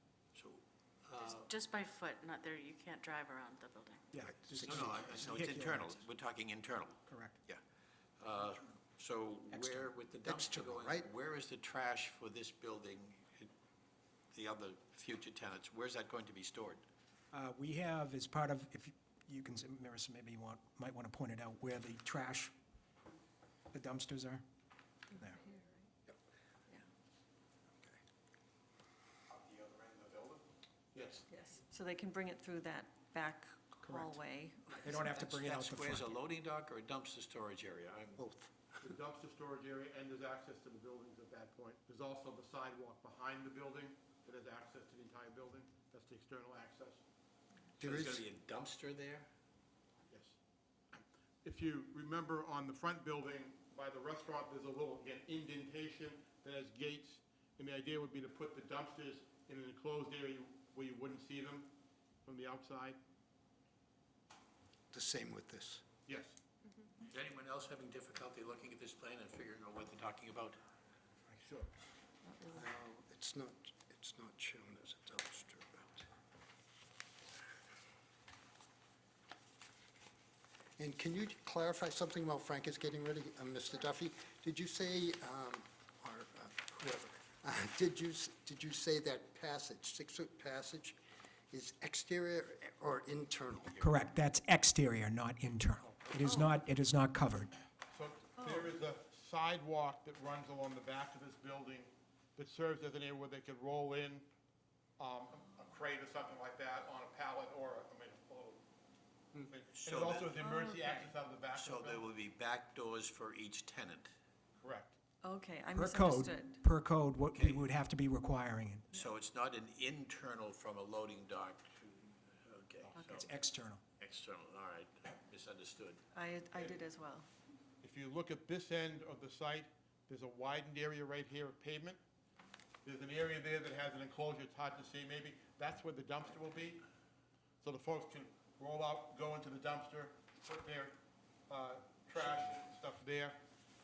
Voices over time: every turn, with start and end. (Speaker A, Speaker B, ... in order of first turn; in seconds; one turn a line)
Speaker A: 0.3-1.5
Speaker B: 1.2-4.0
Speaker C: 4.1-6.0
Speaker D: 4.2-5.4
Speaker A: 4.6-7.6
Speaker C: 7.1-7.4
Speaker A: 8.2-13.5
Speaker D: 9.7-11.1
Speaker A: 14.3-16.8
Speaker C: 17.3-22.5
Speaker C: 23.7-24.4
Speaker C: 25.1-25.4
Speaker E: 25.4-25.8
Speaker A: 29.6-30.3
Speaker F: 30.9-31.2
Speaker E: 31.3-35.0
Speaker C: 33.8-34.2
Speaker C: 34.8-36.1
Speaker A: 35.0-38.2
Speaker D: 38.2-38.5
Speaker F: 38.8-47.0
Speaker D: 47.8-48.2
Speaker A: 47.8-49.3
Speaker F: 50.1-50.4
Speaker F: 50.9-61.7
Speaker F: 62.2-63.0
Speaker D: 64.9-65.8
Speaker F: 66.0-66.4
Speaker A: 67.0-70.6
Speaker F: 71.4-71.7
Speaker E: 72.2-72.7
Speaker D: 72.5-76.1
Speaker D: 80.8-91.0
Speaker D: 91.5-93.8
Speaker A: 93.6-93.9
Speaker C: 93.8-97.5
Speaker F: 95.9-96.2
Speaker F: 97.9-104.3
Speaker E: 98.4-98.7
Speaker F: 105.0-108.6
Speaker F: 109.5-112.0
Speaker A: 109.7-110.3
Speaker E: 110.3-111.2
Speaker A: 111.5-114.1
Speaker F: 114.6-115.0
Speaker E: 115.2-116.6
Speaker C: 115.7-118.9
Speaker A: 117.3-117.7
Speaker A: 118.9-123.3
Speaker E: 123.0-123.3
Speaker C: 123.1-123.8
Speaker A: 124.0-126.0
Speaker E: 126.1-127.3
Speaker F: 126.6-126.8
Speaker F: 127.8-132.0
Speaker F: 132.8-136.8
Speaker F: 137.6-140.9
Speaker F: 141.5-143.4
Speaker A: 142.2-142.5